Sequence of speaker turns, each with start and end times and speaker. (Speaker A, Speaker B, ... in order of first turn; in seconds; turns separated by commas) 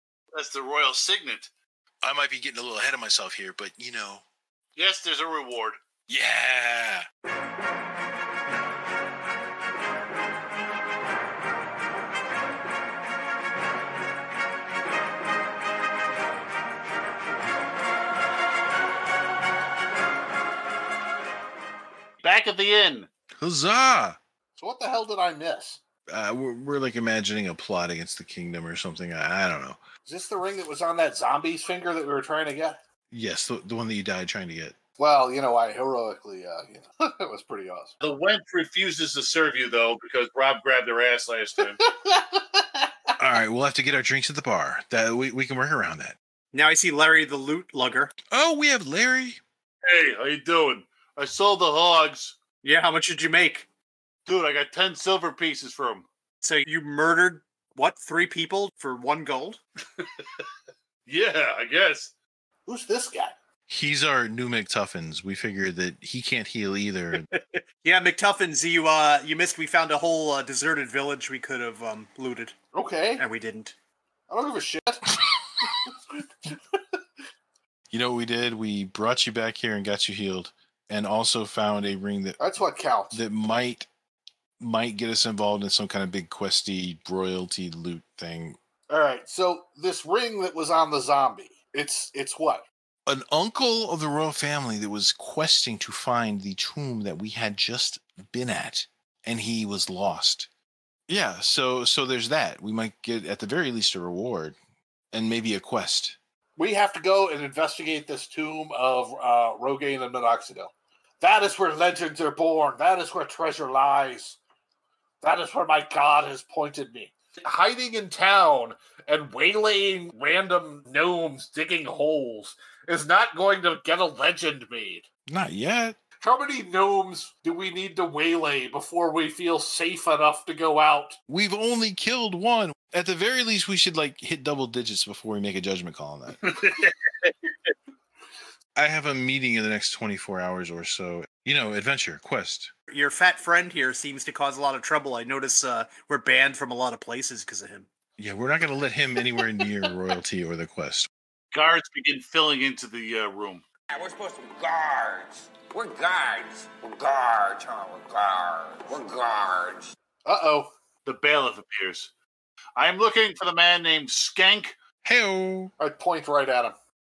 Speaker A: 0.3-1.5, Speaker B: 2.0-4.2, Speaker A: 4.8-5.8, Speaker B: 6.1-7.0, Speaker A: 22.2-23.1, Speaker B: 23.4-24.2, Speaker C: 24.6-25.8, Speaker B: 26.1-29.8, Speaker C: 30.0-32.8, Speaker B: 33.1-34.7, Speaker C: 35.0-37.9, Speaker A: 38.0-41.8, Speaker C: 41.8-42.6, Speaker B: 43.2-46.2, Speaker D: 46.5-48.1, Speaker B: 48.3-49.4, Speaker A: 49.9-52.4, Speaker D: 52.6-53.6, Speaker A: 54.2-56.1, Speaker D: 56.4-59.6, Speaker A: 60.0-60.5, Speaker A: 61.0-62.1, Speaker C: 62.7-63.3, Speaker B: 63.7-67.3, Speaker D: 67.3-72.5, Speaker C: 72.7-73.2, Speaker D: 73.2-73.7, Speaker C: 74.3-75.9, Speaker B: 77.9-82.4, Speaker C: 82.4-83.2, Speaker B: 83.1-83.9, Speaker B: 84.6-88.6, Speaker C: 88.9-92.7, Speaker B: 93.0-100.5, Speaker B: 101.1-104.6, Speaker B: 105.1-106.2, Speaker C: 106.6-114.4, Speaker C: 115.2-125.0, Speaker B: 125.3-126.0, Speaker C: 126.2-131.2, Speaker B: 131.3-136.4, Speaker A: 136.4-137.7, Speaker B: 138.8-142.7, Speaker D: 142.9-147.9, Speaker B: 148.2-151.1, Speaker A: 151.5-153.6, Speaker E: 153.9-159.8, Speaker C: 160.2-160.7, Speaker A: 161.0-162.1, Speaker A: 162.8-164.7, Speaker B: 165.0-165.7, Speaker C: 165.8-166.7